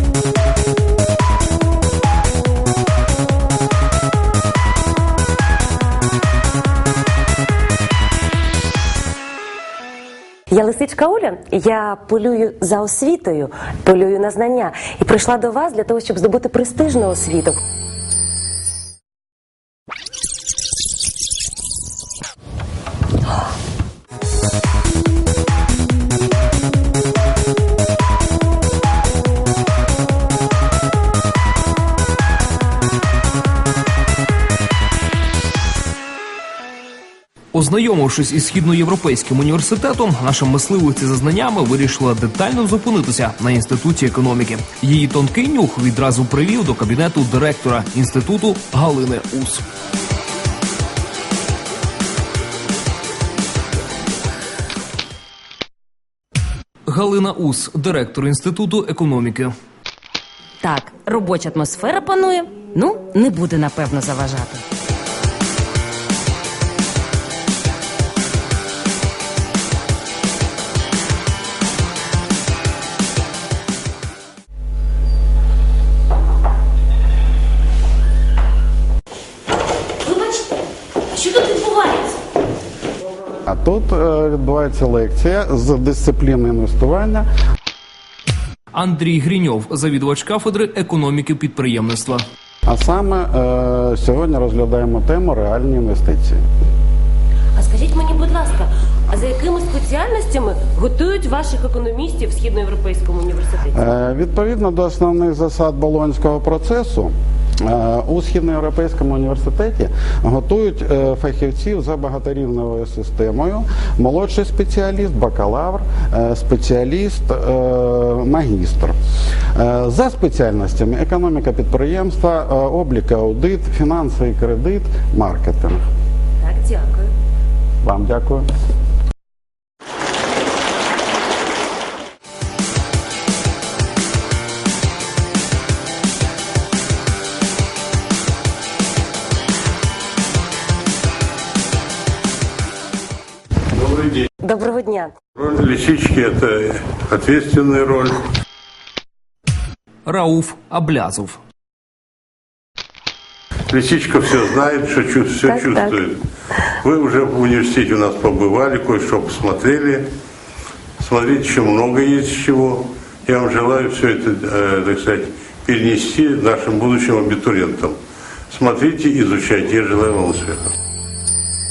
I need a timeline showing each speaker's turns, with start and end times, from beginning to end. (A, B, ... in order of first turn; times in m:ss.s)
0:10.5-0:17.6 A
0:37.5-0:49.6 B
0:56.9-0:59.5 B
1:00.7-1:04.6 C
1:20.1-1:20.4 A
1:21.1-1:22.1 A
1:23.4-1:27.3 D
1:28.7-1:32.2 B
1:32.7-1:36.4 D
1:37.6-1:44.0 A
1:43.7-1:59.0 D
1:59.6-2:05.8 D
2:06.4-2:07.1 A
2:07.8-2:08.5 D
2:23.8-2:24.3 E
2:24.4-2:25.2 A
2:25.4-2:28.2 E
2:30.1-2:31.4 B
2:33.7-2:36.2 E
2:35.5-2:36.0 A
2:36.8-2:40.1 E
2:41.0-2:48.0 E
2:48.5-2:50.6 E